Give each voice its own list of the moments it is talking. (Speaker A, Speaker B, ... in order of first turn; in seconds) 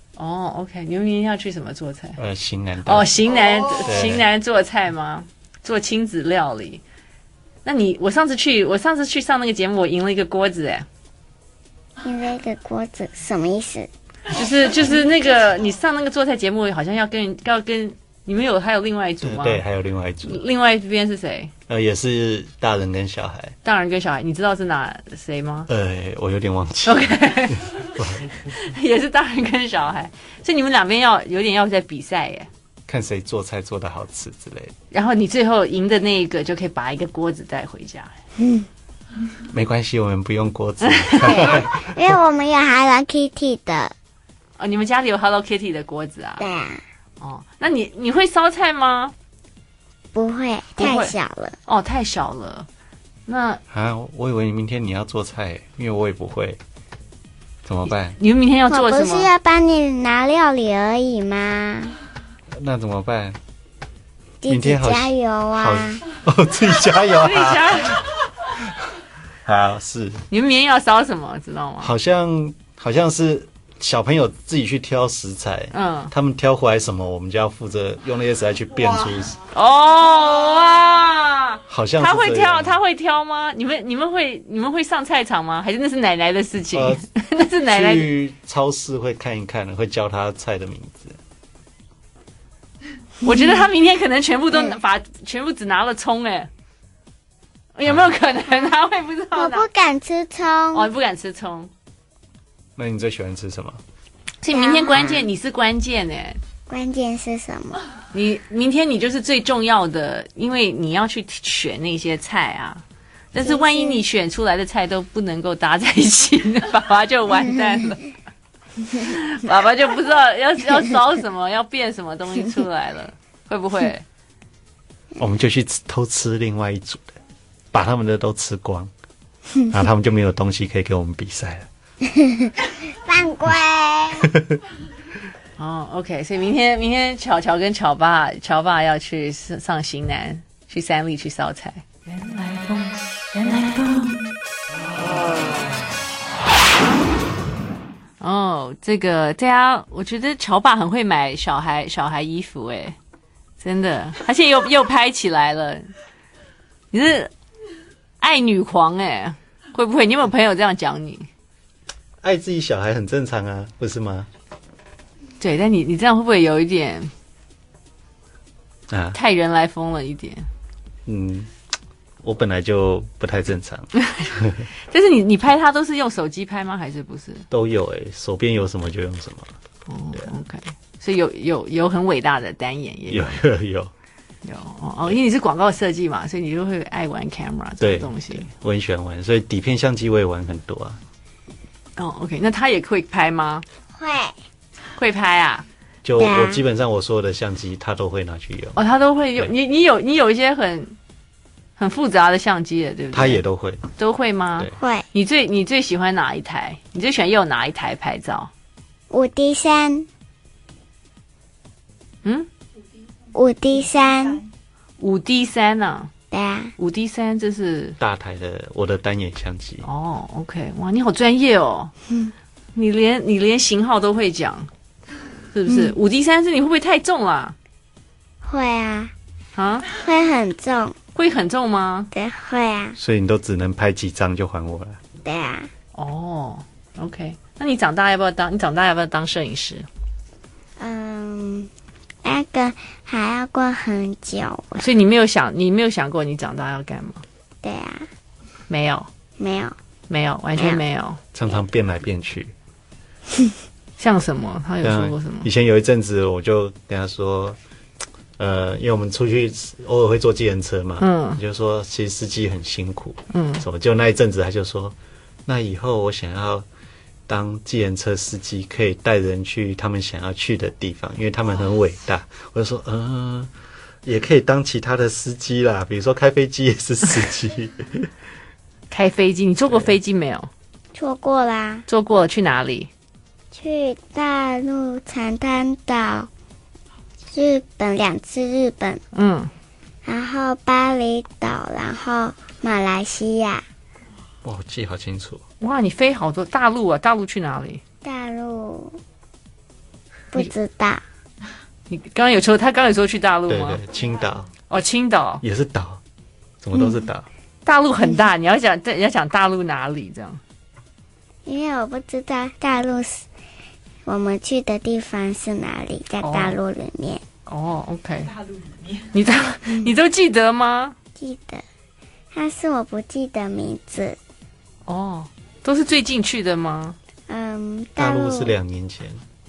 Speaker A: 0.2-2.2, 2.8-6.8, 7.6-10.8, 14.3-19.6, 20.2-21.5, 23.6-25.7, 26.8-32.5, 34.9-38.1, 40.8-41.6, 44.6-46.5, 47.2-49.1, 50.8-51.1, 51.6-52.7, 53.3-53.6, 58.2-59.3, 67.1-68.0, 70.3-71.9, 75.7-76.1, 79.5-88.1, 93.2-96.5, 97.7-99.7, 100.7-101.7, 104.4-106.4, 108.1-118.1, 118.8-124.0, 135.6-144.2, 148.2-152.9, 153.6-155.9, 156.9-157.3, 158.2-161.3, 165.4-167.1, 169.1-170.5, 174.0-174.3, 174.9-177.5, 179.9-183.4, 184.4-188.5, 192.0-193.6, 195.0-195.6, 198.8-200.9, 201.8-203.4, 204.0-208.5, 212.2-212.5, 215.0-216.1, 216.8-218.0, 219.8-221.9, 222.7-224.7, 225.5-227.5, 229.5-229.9, 231.1-232.1, 235.9-239.9, 244.8-247.2, 248.7-249.1, 250.1-251.2, 254.0-255.5, 261.0-261.4, 263.3-263.6, 278.9-280.5, 281.9-282.9, 289.1-289.5, 295.6-297.8, 301.9-303.8, 304.7-305.4, 307.6-310.4, 316.2-316.6, 317.5-318.4, 318.9-320.9, 324.9-326.9
Speaker B: 2.2-3.1, 3.8-4.2, 19.2-20.4, 21.7-23.5, 25.7-28.3, 32.9-34.7, 39.5-42.1, 53.7-56.6, 57.6-58.2, 62.5-63.4, 64.5-68.8, 69.4-70.2, 71.8-79.4, 81.7-82.8, 86.7-87.0, 87.6-91.2, 102.8-103.8, 125.2-127.2, 127.7-128.9, 129.7-131.7, 162.2-164.3, 168.9-169.2, 171.1-171.5, 172.2-174.7, 177.5-179.5, 183.1-183.9, 187.8-191.0, 196.0-198.8, 203.1-203.8, 218.0-219.9, 233.0-235.0, 251.3-252.5, 254.8-257.6, 258.4-264.9, 265.4-266.6, 267.3-273.5, 274.0-278.1, 294.4-295.4, 303.5-304.5, 305.4-306.0, 306.6-307.3, 328.0-329.2
Speaker C: 12.0-13.9, 38.4-38.7, 41.2-43.9, 46.4-46.8, 50.1-51.6, 58.7-62.0, 64.4-66.0, 99.3-100.9, 104.5-105.3, 106.7-107.8, 113.3-114.0, 132.0-134.3, 193.9-194.3, 196.2-196.6, 204.8-205.1, 209.1-210.1, 213.3-214.5, 216.3-216.7, 225.7-225.9, 228.4-229.1, 229.9-230.9, 232.1-233.0, 235.2-235.7, 240.8-241.7, 242.2-244.9, 247.6-248.1, 249.4-249.8, 250.6-250.8, 280.9-281.9, 283.5-286.3, 287.3-289.0, 290.0-293.6, 298.0-299.0, 300.3-301.0, 311.4-313.3, 314.1-317.2, 321.2-321.6, 322.3-324.2, 327.3-328.5